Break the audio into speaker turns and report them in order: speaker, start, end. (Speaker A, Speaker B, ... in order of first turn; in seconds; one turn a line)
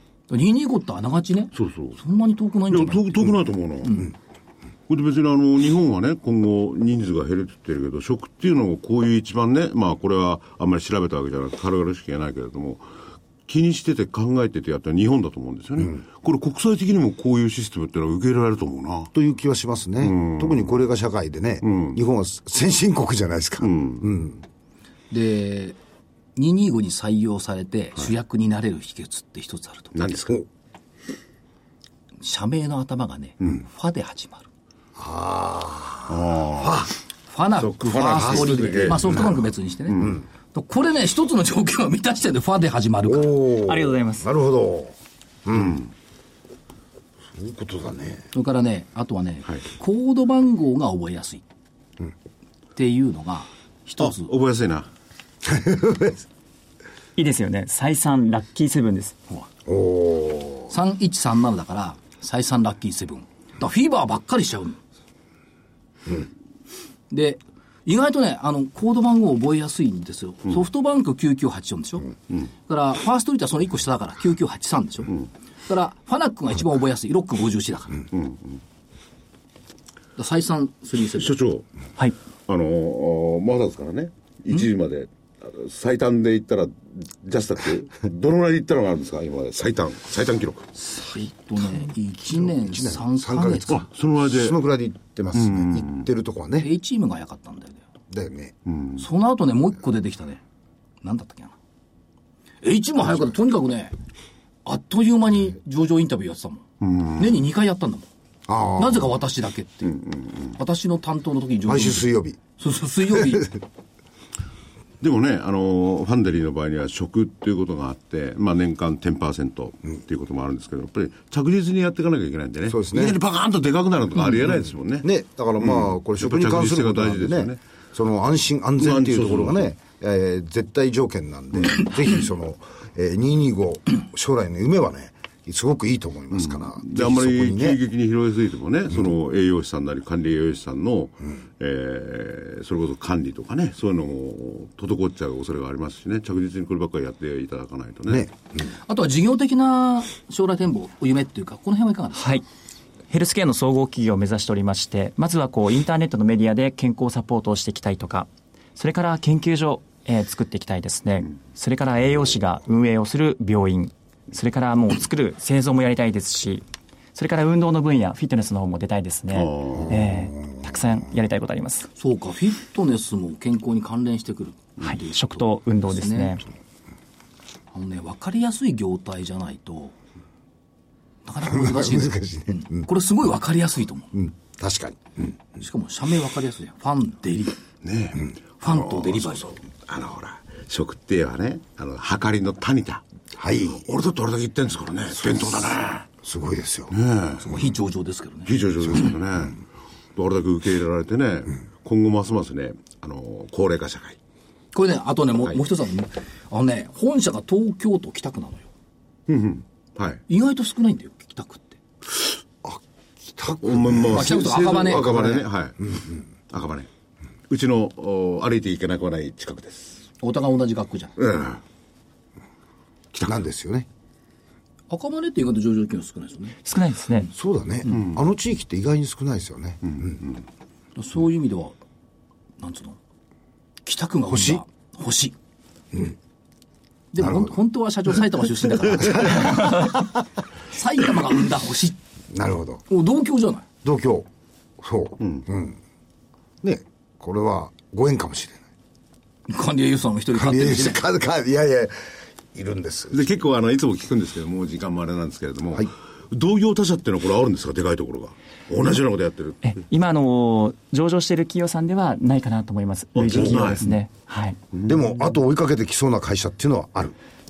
Speaker A: 0.3-4.1
Speaker B: 1.6-2.0
Speaker B: 2.7-4.1
Speaker B: 4.9-12.8
Speaker B: 13.5-19.1
Speaker C: 19.1-24.4
Speaker B: 20.0-20.8
Speaker B: 21.6-22.0
Speaker B: 23.6-24.1
Speaker A: 25.1-25.8
Speaker A: 26.4-30.0
Speaker B: 29.9-30.4
Speaker A: 32.2-34.5
Speaker C: 35.0-36.9
Speaker B: 36.1-36.9
Speaker A: 37.3-43.4
Speaker B: 37.6-39.4
Speaker C: 38.2-39.2
Speaker B: 39.9-40.1
Speaker C: 43.1-45.0
Speaker D: 43.6-44.3
Speaker C: 45.5-45.8
Speaker B: 45.5-45.9
Speaker C: 47.3-48.3
Speaker A: 48.3-51.5
Speaker A: 52.8-54.3
Speaker B: 54.0-54.9
Speaker C: 55.4-56.2
Speaker D: 57.2-59.2
Speaker C: 59.7-60.7
Speaker A: 60.7-64.8
Speaker A: 67.1-72.2
Speaker A: 72.7-75.1
Speaker A: 75.7-78.1
Speaker B: 78.1-78.6
Speaker A: 80.2-81.4
Speaker B: 81.2-81.7
Speaker B: 82.5-90.7
Speaker A: 90.8-93.8
Speaker C: 92.3-96.7
Speaker B: 93.7-94.6
Speaker B: 95.3-96.1
Speaker A: 96.6-97.8
Speaker C: 98.1-98.5
Speaker B: 98.7-99.0
Speaker A: 99.0-100.4
Speaker A: 101.0-101.5
Speaker A: 102.6-103.9
Speaker A: 104.7-106.7
Speaker B: 106.8-107.4
Speaker A: 107.2-108.1
Speaker C: 108.5-109.2
Speaker A: 108.8-109.9
Speaker B: 109.9-110.6
Speaker A: 110.6-113.6
Speaker C: 111.7-112.4
Speaker B: 115.0-125.1
Speaker C: 122.7-123.2
Speaker C: 125.0-137.8
Speaker B: 125.6-127.6
Speaker B: 128.8-129.7
Speaker B: 136.3-148.3
Speaker A: 148.9-152.3
Speaker D: 152.2-152.4
Speaker D: 153.1-171.9
Speaker B: 169.3-169.9
Speaker A: 172.0-176.4
Speaker D: 174.8-176.5
Speaker A: 177.7-179.9
Speaker A: 181.2-184.1
Speaker C: 181.5-182.9
Speaker C: 184.1-185.1
Speaker A: 185.6-187.6
Speaker B: 187.8-193.0
Speaker A: 188.6-189.6
Speaker C: 193.4-193.8
Speaker B: 193.8-196.1
Speaker C: 195.2-195.5
Speaker C: 196.2-196.9
Speaker B: 196.9-197.5
Speaker A: 197.4-198.5
Speaker B: 198.5-199.6
Speaker B: 200.2-204.2
Speaker A: 204.7-208.7
Speaker B: 209.3-210.2
Speaker A: 210.3-211.8
Speaker C: 212.6-214.5
Speaker B: 213.6-216.9
Speaker A: 214.1-215.4
Speaker B: 217.5-220.0
Speaker A: 220.2-221.1
Speaker B: 221.2-221.6
Speaker B: 223.1-223.4
Speaker C: 223.2-223.9
Speaker A: 224.9-226.6
Speaker D: 226.7-227.3
Speaker C: 227.3-230.2
Speaker B: 227.9-228.2
Speaker A: 231.0-231.8
Speaker A: 232.6-233.0
Speaker A: 233.8-235.3
Speaker C: 234.3-234.6
Speaker A: 237.1-240.0
Speaker C: 237.2-237.5
Speaker A: 240.7-242.0
Speaker C: 242.3-242.8
Speaker A: 242.9-243.7
Speaker C: 243.8-244.3
Speaker C: 244.8-245.8
Speaker C: 246.6-248.6
Speaker A: 249.5-251.0
Speaker C: 250.3-251.9
Speaker C: 252.5-253.2
Speaker B: 253.1-259.6
Speaker D: 259.6-264.6
Speaker B: 263.2-263.9
Speaker C: 264.9-267.1